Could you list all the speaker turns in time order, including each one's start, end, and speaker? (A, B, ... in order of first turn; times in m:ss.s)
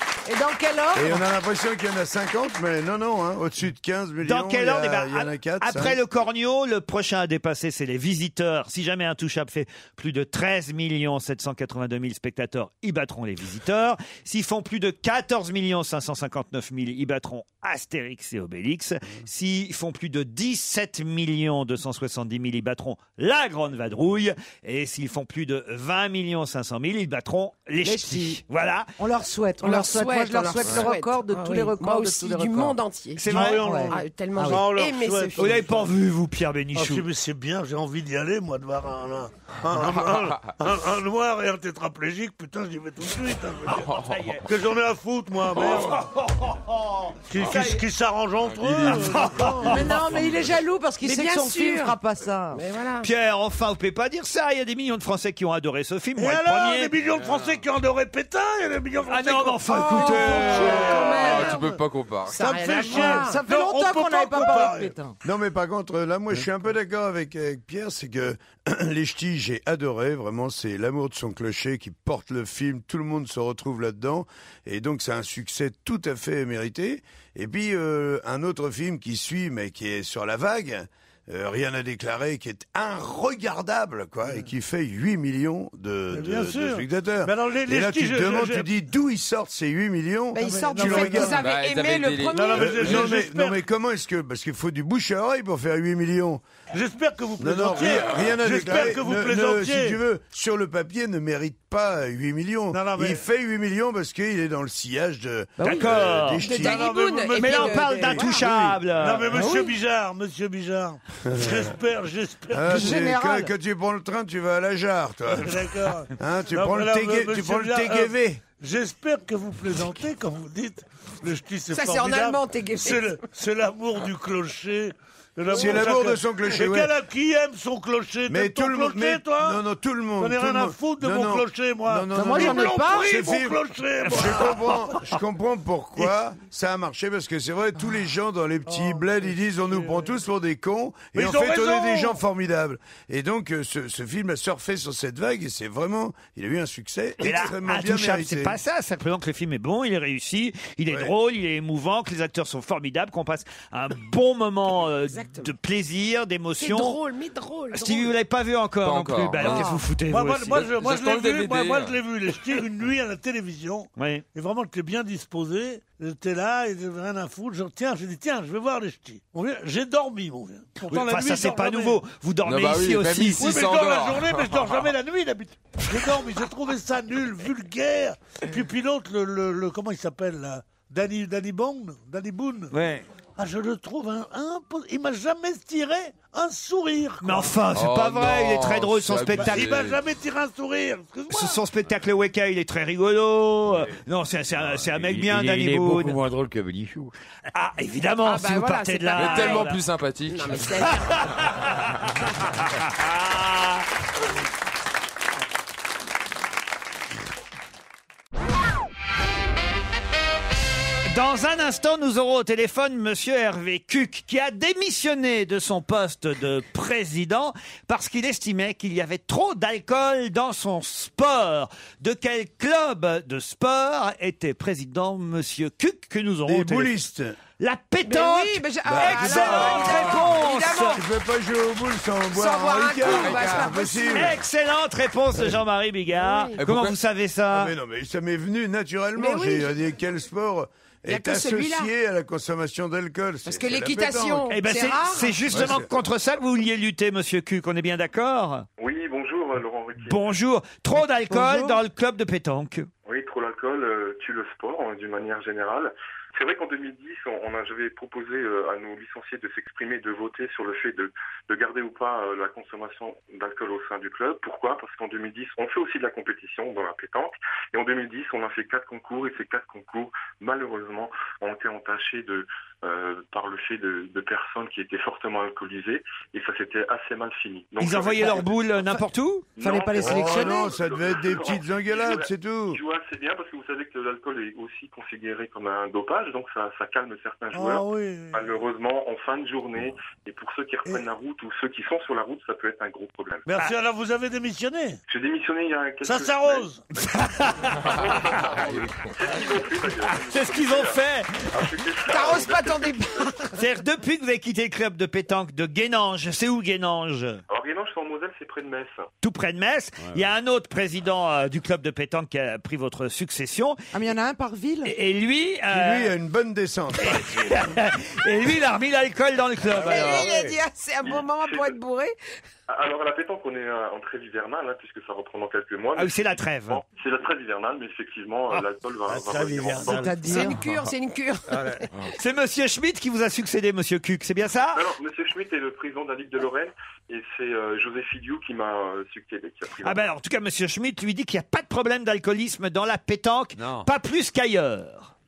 0:00.2-0:01.2 A
0:00.9-0:06.0 B
0:04.2-0:28.9 C
0:27.8-0:28.4 A
0:29.0-0:32.8 A
0:29.6-0:33.4 D
0:33.2-0:33.8 C
0:33.3-0:35.9 E
0:33.3-0:34.7 A
0:33.9-0:35.6 D
0:35.4-0:37.1 C
0:36.7-0:46.1 E
0:39.9-0:40.5 F
0:44.0-0:44.4 C
0:45.9-0:46.8 C
0:47.3-0:50.0 E
0:47.4-0:47.8 C
0:48.5-0:49.1 F
0:48.8-0:49.9 C
0:49.6-0:52.6 A
0:51.0-0:52.0 D
0:52.5-0:53.1 D
0:53.0-0:56.9 C
0:56.2-1:01.7 E
0:57.2-0:57.5 F
0:59.1-1:00.7 C
0:59.7-1:00.8 A
1:00.0-1:02.6 F
1:00.0-1:03.4 D
1:02.3-1:04.9 E
1:02.9-1:05.1 A
1:05.2-1:31.4 B
1:26.1-1:28.7 E
1:30.3-1:32.8 D
1:30.4-1:31.4 E
1:31.3-1:33.1 F
1:32.3-1:33.6 E
1:32.5-1:36.4 B
1:36.7-1:40.0 E
1:37.4-1:46.9 B
1:42.7-1:43.2 E
1:45.6-1:45.8 A
1:45.6-1:46.4 C
1:46.4-1:48.4 D
1:46.5-1:48.1 E
1:47.3-1:49.4 C
1:48.2-1:48.8 B
1:48.9-1:53.0 E
1:49.3-1:49.7 A
1:51.2-1:51.7 B
1:52.5-1:55.6 B
1:52.6-1:53.5 A
1:55.3-2:09.6 E
1:56.1-1:58.4 B
2:01.7-2:03.3 D
2:05.5-2:06.9 B
2:08.3-2:28.6 B
2:10.2-2:15.0 E
2:12.1-2:13.2 A
2:18.6-2:20.2 E
2:21.1-2:22.2 E
2:27.2-2:37.0 C
2:35.1-2:35.5 D
2:36.6-2:38.1 D
2:37.7-2:40.7 C
2:38.8-2:39.7 F
2:40.0-2:52.0 E
2:40.6-2:42.0 F
2:44.0-2:44.2 C
2:50.9-2:53.6 C
2:52.4-2:54.8 F
2:53.3-3:02.7 E
3:02.7-3:03.0 C
3:03.4-3:07.6 E
3:07.2-3:09.8 C
3:07.7-3:10.0 F
3:09.3-3:11.6 E
3:11.3-3:16.2 C
3:14.5-3:17.1 G
3:17.5-3:19.8 C
3:18.2-3:19.8 D
3:19.1-3:20.7 F
3:20.3-3:21.6 D
3:20.9-3:23.8 C
3:31.1-3:47.0 C
3:46.4-3:47.4 B
3:47.6-3:51.0 C
3:48.0-3:51.0 D
3:48.8-3:54.4 B
3:52.3-3:54.4 D
3:53.0-3:53.8 F
3:54.1-3:57.7 C
3:56.2-3:56.6 D
3:56.6-3:57.0 F
3:57.5-4:04.5 B
3:59.2-3:59.7 D
4:01.1-4:01.9 D
4:03.4-4:05.6 D
4:04.5-4:08.6 C
4:05.5-4:05.9 B
4:08.8-4:10.3 H
4:10.0-4:12.9 C
4:11.0-4:11.8 A
4:13.0-4:38.9 H
4:37.8-4:39.6 C
4:39.6-4:53.5 H
4:39.6-4:40.7 A
4:40.0-4:42.8 B
4:47.5-4:48.4 E
4:53.4-4:55.0 E
4:55.1-4:56.7 H
4:56.0-4:56.8 E
4:57.1-4:57.9 C
4:57.7-5:03.3 H
5:00.0-5:01.6 C
5:02.1-5:03.6 D
5:03.5-5:07.4 C
5:07.5-5:09.1 H
5:09.2-5:13.8 C
5:10.0-5:10.2 G
5:13.9-5:14.9 A
5:14.8-5:16.1 C
5:15.7-5:17.7 B
5:17.0-5:20.2 C
5:19.7-5:20.6 G
5:19.8-5:22.1 D
5:21.0-5:21.8 H
5:22.7-5:30.3 H
5:26.0-5:26.8 C
5:28.6-5:30.5 E
5:29.8-5:30.6 A
5:30.2-5:31.9 D
5:31.5-5:31.8 G
5:32.2-5:34.8 C
5:34.7-5:40.1 H
5:39.8-5:45.1 C
5:43.6-5:43.9 G